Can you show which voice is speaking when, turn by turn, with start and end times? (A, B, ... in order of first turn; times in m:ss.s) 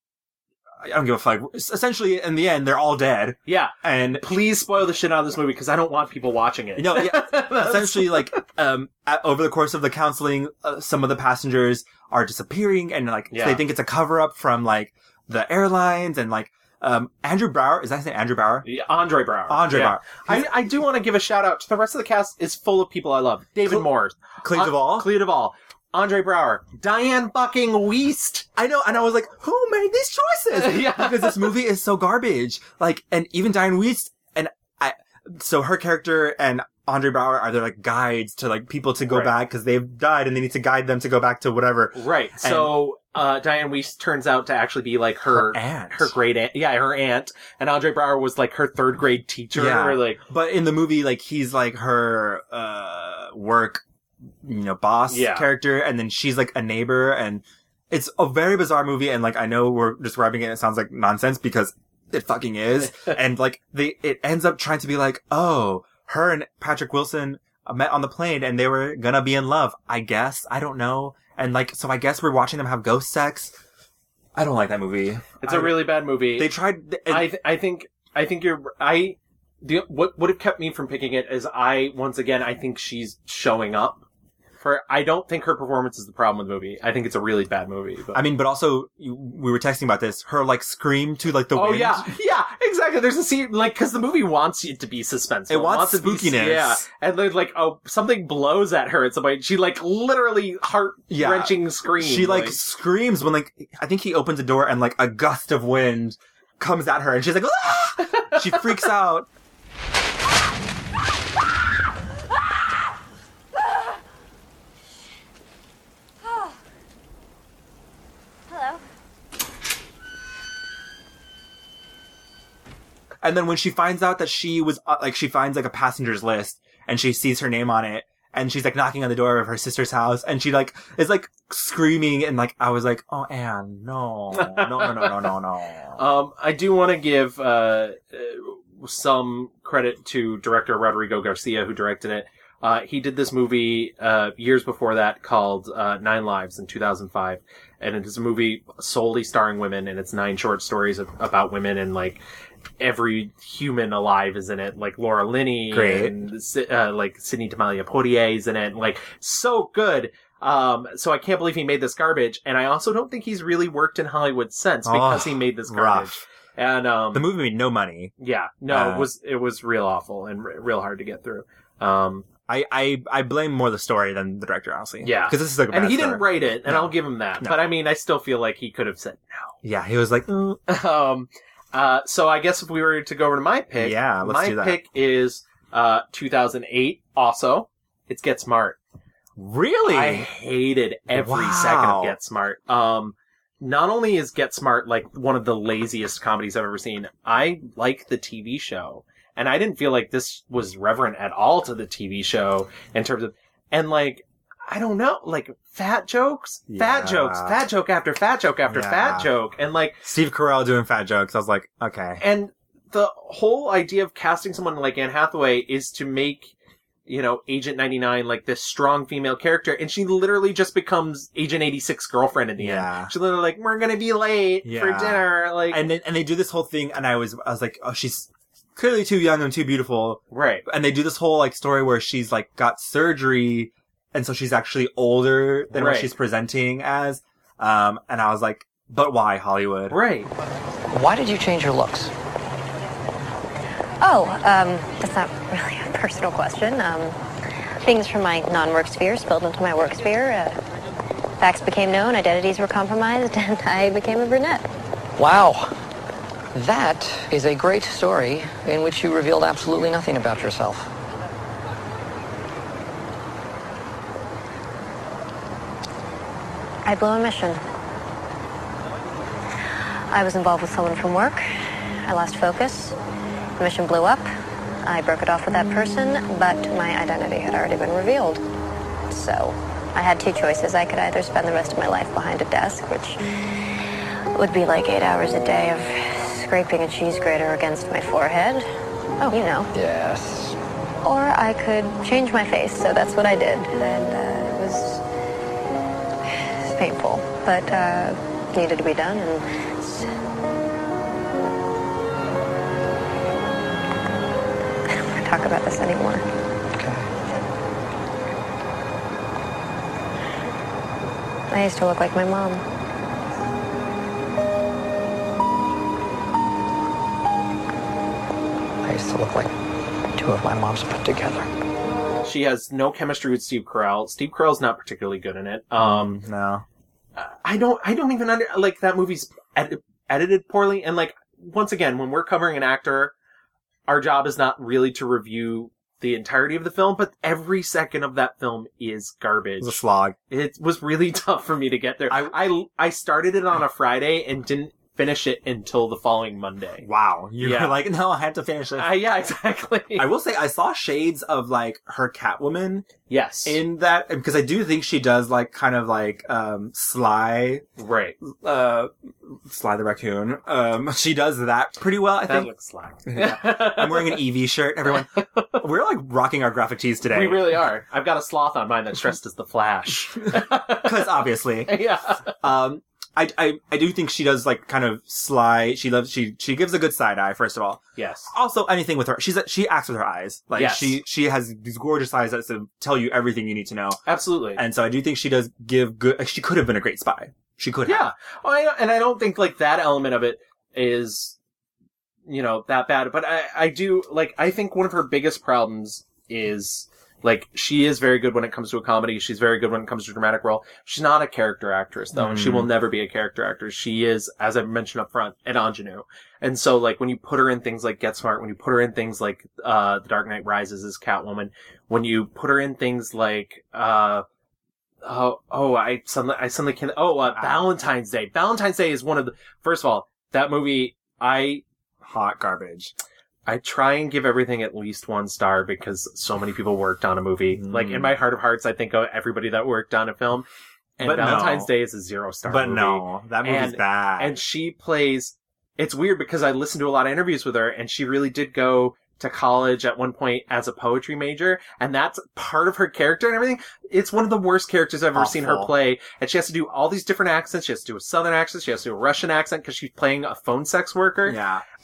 0:00.8-0:04.2 A
0:03.5-0:08.4 B
0:06.8-0:18.7 A
0:13.3-0:13.6 B
0:18.6-0:28.5 B
0:19.5-0:20.5 A
0:24.4-0:25.1 A
0:28.6-0:42.8 A
0:30.5-0:31.6 B
0:39.1-0:39.3 B
0:42.0-0:50.2 B
0:45.3-0:46.1 A
0:49.5-0:53.8 A
0:54.4-1:13.6 A
0:55.1-0:55.5 B
1:14.4-1:17.3 A
1:15.4-1:16.5 B
1:17.1-1:24.1 B
1:24.6-1:28.2 B
1:28.1-1:32.1 A
1:31.5-1:42.6 B
1:35.5-1:36.8 A
1:41.1-1:49.3 A
1:48.3-1:48.7 B
2:03.2-2:16.0 A
2:14.3-2:15.3 B
2:16.0-2:32.2 B
2:32.8-2:47.3 B
2:35.7-2:36.1 A
2:44.8-2:46.2 A
2:47.1-2:48.1 A
2:48.2-2:52.3 B
2:48.7-2:49.1 A
2:52.5-2:57.6 A
2:55.0-2:59.6 B
2:59.6-3:00.6 A
3:00.7-3:08.8 B
3:03.8-3:04.8 A
3:09.4-3:10.3 A
3:09.9-3:30.0 B
3:11.1-3:12.2 A
3:26.7-3:27.6 A
3:28.7-3:29.3 A
3:30.0-3:32.2 A
3:32.2-3:36.5 B
3:37.1-3:45.9 B
3:42.6-3:43.1 A
3:44.6-4:00.0 A
3:50.3-3:50.6 B
3:55.7-3:56.1 B
3:59.9-4:00.3 B
4:00.9-4:02.1 C
4:04.0-4:07.2 D
4:07.8-4:10.6 D
4:11.4-4:14.6 D
4:15.2-4:15.7 C
4:16.5-4:20.9 C
4:26.8-4:27.6 D
4:30.1-4:31.4 D
4:32.0-4:33.0 D
4:33.6-4:34.3 D
4:34.8-4:38.4 D
4:39.1-4:43.2 D
4:44.4-4:48.7 D
4:49.2-4:49.7 D
4:49.7-4:50.6 C
4:51.0-4:55.0 D
4:56.3-5:00.2 D
5:05.0-5:06.2 D
5:06.7-5:07.1 C
5:11.5-5:12.6 D
5:18.8-5:19.5 C
5:20.2-5:21.5 C
5:22.2-5:26.2 B
5:25.8-5:26.6 A
5:27.2-5:33.1 B
5:33.9-5:39.8 B
5:39.6-5:40.2 A
5:40.3-5:46.9 B
5:42.1-5:42.4 A
5:46.8-5:49.0 A
5:47.4-5:47.8 B
5:48.8-5:50.1 B
5:50.0-5:52.9 A
5:53.1-5:53.6 B
5:53.4-5:57.6 A
5:57.8-5:58.2 B
5:58.2-6:02.5 A
6:02.2-6:04.3 B
6:03.1-6:07.6 A
6:05.2-6:05.6 B
6:07.1-6:12.3 B
6:10.4-6:11.8 A
6:12.4-6:24.0 A
6:18.0-6:18.3 B
6:20.6-6:21.0 B
6:24.1-6:24.6 B
6:24.6-6:28.1 A
6:27.9-6:31.4 B
6:32.3-6:54.3 B
6:42.2-6:42.7 A
6:55.0-7:01.6 B
6:57.3-6:57.7 A
7:02.1-7:02.9 A
7:03.5-7:10.5 B
7:07.6-7:08.1 A
7:11.0-7:31.4 B
7:11.0-7:11.7 A
7:12.5-7:14.4 A
7:25.1-7:25.7 A
7:31.2-7:31.6 A